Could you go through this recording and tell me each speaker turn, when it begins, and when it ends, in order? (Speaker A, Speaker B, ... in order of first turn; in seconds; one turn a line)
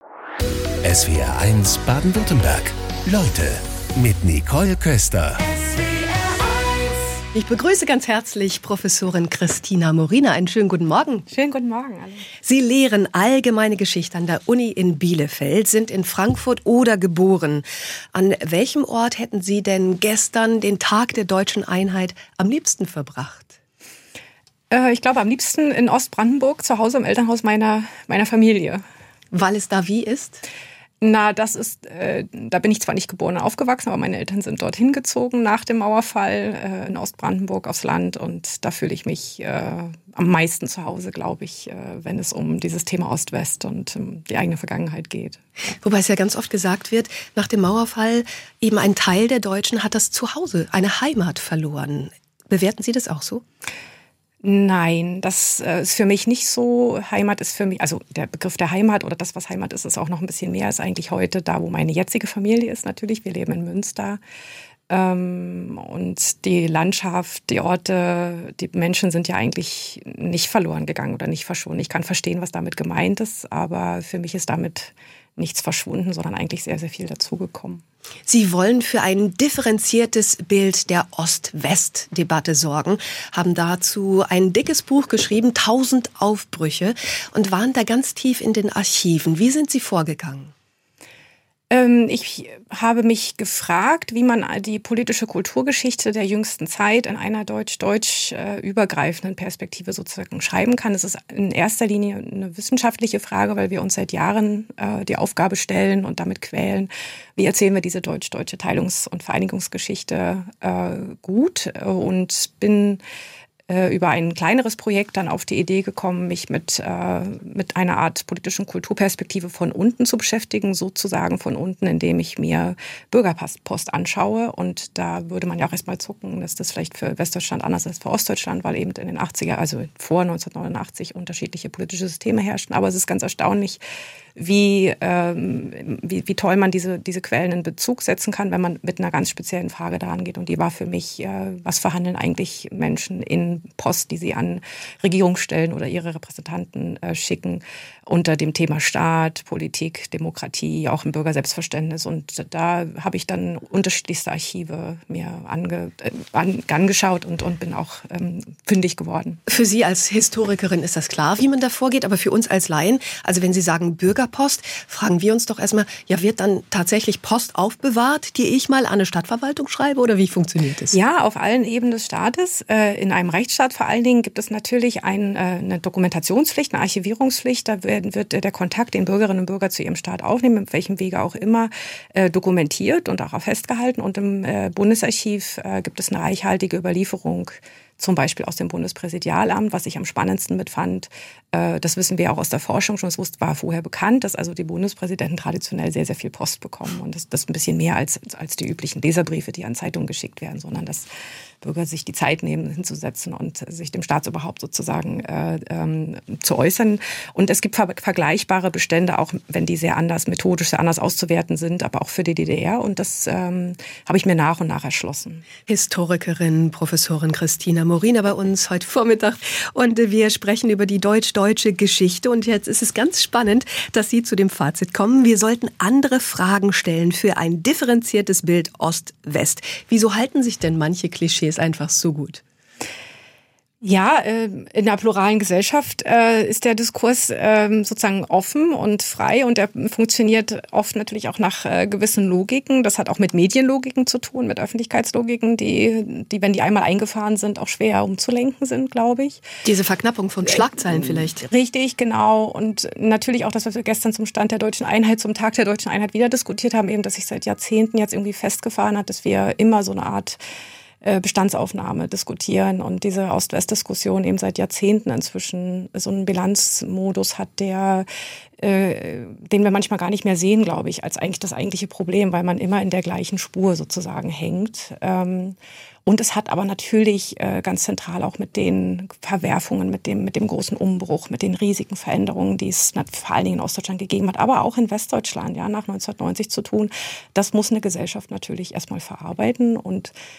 Speaker A: 0.8-5.8
Speaker B: 7.3-11.3
Speaker C: 11.3-12.2
Speaker B: 12.4-23.5
Speaker C: 24.7-28.8
Speaker B: 29.3-30.4
Speaker C: 31.0-45.4
Speaker B: 45.8-53.4
Speaker C: 54.4-64.2
Speaker C: 64.9-77.8
Speaker B: 78.3-90.5
Speaker C: 91.7-113.0
Speaker C: 113.7-133.8
Speaker C: 134.3-159.4
Speaker B: 159.5-171.0
Speaker C: 170.9-201.1
Speaker C: 201.6-215.4
Speaker B: 215.7-232.4
Speaker C: 233.8-249.4
Speaker B: 249.6-251.4
Speaker C: 251.0-260.4
Speaker C: 261.0-268.1
Speaker C: 268.6-290.1